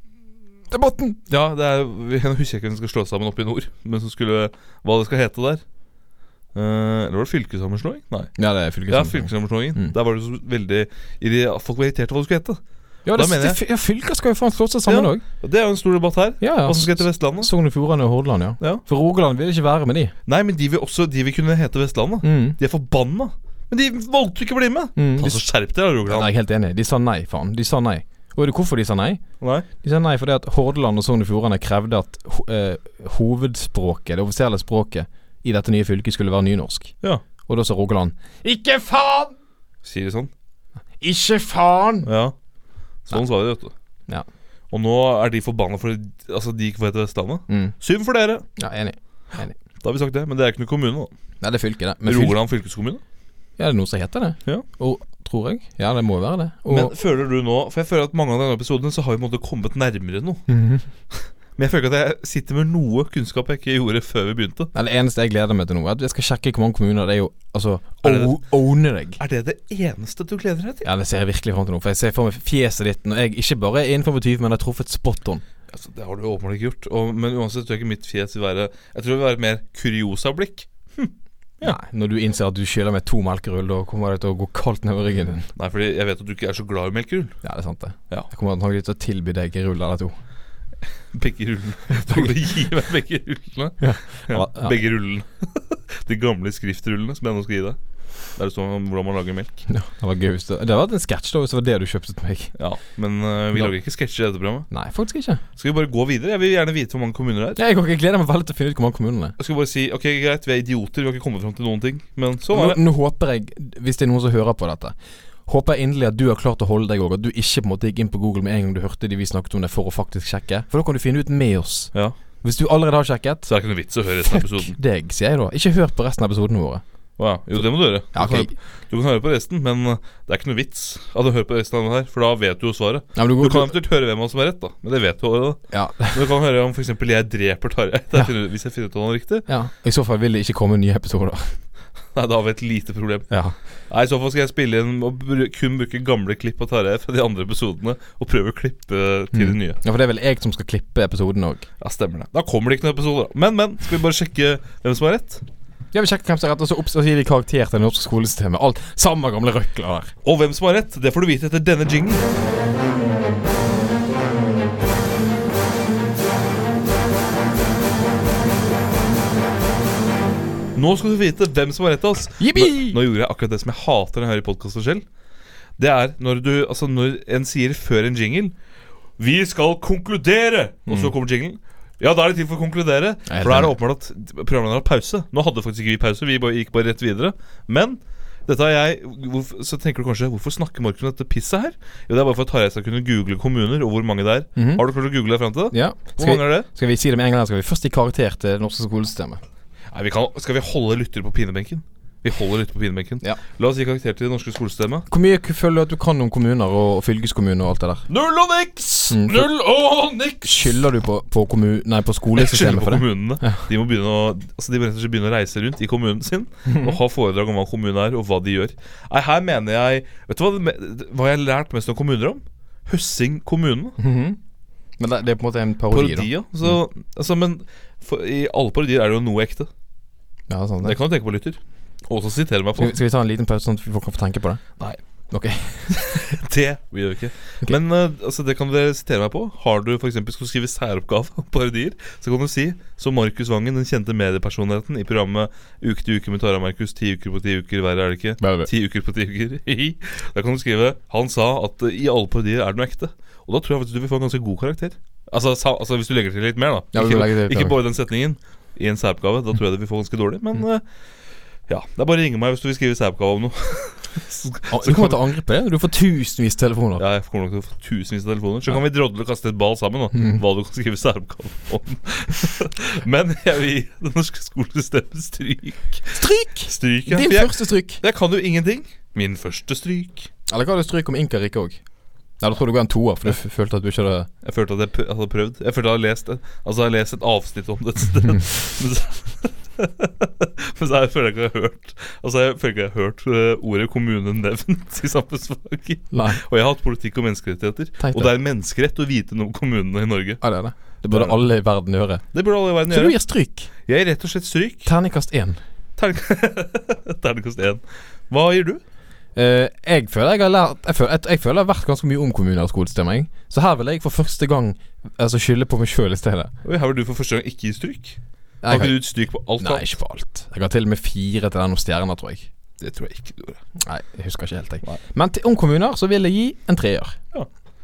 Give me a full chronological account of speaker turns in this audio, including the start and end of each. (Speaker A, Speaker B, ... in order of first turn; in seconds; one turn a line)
Speaker A: 0.7-1.2
Speaker B: 1.3-5.6
Speaker B: 6.5-8.3
Speaker A: 8.4-9.9
Speaker B: 8.9-12.6
Speaker A: 13.1-15.2
Speaker B: 13.1-13.6
Speaker B: 14.9-17.5
Speaker A: 16.4-20.1
Speaker B: 20.2-26.3
Speaker A: 22.2-22.6
Speaker A: 24.9-25.4
Speaker A: 26.1-29.2
Speaker B: 29.4-29.7
Speaker A: 29.8-36.9
Speaker A: 37.4-39.3
Speaker B: 39.8-40.3
Speaker A: 41.0-42.1
Speaker B: 42.0-42.3
Speaker B: 43.1-43.7
Speaker B: 44.7-48.4
Speaker A: 47.5-47.7
Speaker A: 48.6-49.5
Speaker B: 49.8-51.1
Speaker A: 51.4-52.4
Speaker B: 52.0-53.0
Speaker A: 53.6-56.9
Speaker B: 56.7-60.4
Speaker A: 60.5-60.9
Speaker B: 61.1-64.7
Speaker A: 64.7-69.2
Speaker B: 68.0-68.3
Speaker B: 69.2-70.9
Speaker A: 70.8-75.4
Speaker B: 75.7-81.8
Speaker A: 81.6-85.5
Speaker B: 85.5-87.3
Speaker A: 87.4-90.2
Speaker B: 91.1-97.8
Speaker A: 92.0-92.3
Speaker A: 93.8-94.8
Speaker B: 98.3-99.5
Speaker A: 99.7-102.5
Speaker B: 102.5-104.7
Speaker A: 104.7-105.4
Speaker B: 105.5-107.6
Speaker A: 107.5-109.3
Speaker B: 109.4-112.8
Speaker A: 112.5-114.9
Speaker A: 115.5-123.5
Speaker B: 123.5-124.8
Speaker A: 124.2-126.8
Speaker B: 127.2-139.4
Speaker A: 128.1-128.5
Speaker A: 133.2-133.7
Speaker A: 135.7-136.2
Speaker A: 139.5-141.5
Speaker B: 142.1-143.3
Speaker A: 143.3-143.5
Speaker B: 143.9-149.8
Speaker A: 149.3-151.6
Speaker B: 151.8-155.4
Speaker A: 155.9-160.1
Speaker B: 160.2-162.3
Speaker B: 170.7-175.0
Speaker A: 172.4-173.0
Speaker B: 175.8-178.5
Speaker B: 179.2-196.7
Speaker A: 183.3-183.8
Speaker A: 194.6-194.8
Speaker A: 195.7-199.4
Speaker B: 199.9-205.1
Speaker A: 205.1-208.1
Speaker B: 208.1-210.8
Speaker A: 209.1-209.5
Speaker A: 210.4-213.6
Speaker B: 212.3-224.0
Speaker A: 216.7-217.0
Speaker A: 224.0-224.4
Speaker A: 225.0-226.3
Speaker B: 225.9-229.7
Speaker A: 230.5-231.0
Speaker B: 230.8-232.9
Speaker A: 232.8-234.7
Speaker A: 235.3-236.3
Speaker B: 235.9-260.8
Speaker A: 248.4-248.7
Speaker A: 256.9-257.8
Speaker B: 261.7-265.3
Speaker A: 264.7-267.0
Speaker B: 267.0-280.3
Speaker A: 276.1-278.0
Speaker A: 280.5-281.8
Speaker A: 282.4-284.3
Speaker B: 284.4-300.4
Speaker A: 296.1-296.4
Speaker A: 298.0-298.3
Speaker A: 300.4-302.2
Speaker B: 301.1-301.4
Speaker B: 302.3-303.1
Speaker A: 302.9-303.7
Speaker B: 303.9-304.9
Speaker A: 304.9-305.6
Speaker B: 306.0-308.8
Speaker A: 309.4-316.5
Speaker B: 316.6-319.8
Speaker A: 318.6-319.0
Speaker A: 319.6-322.5
Speaker B: 322.8-323.6
Speaker A: 323.8-327.2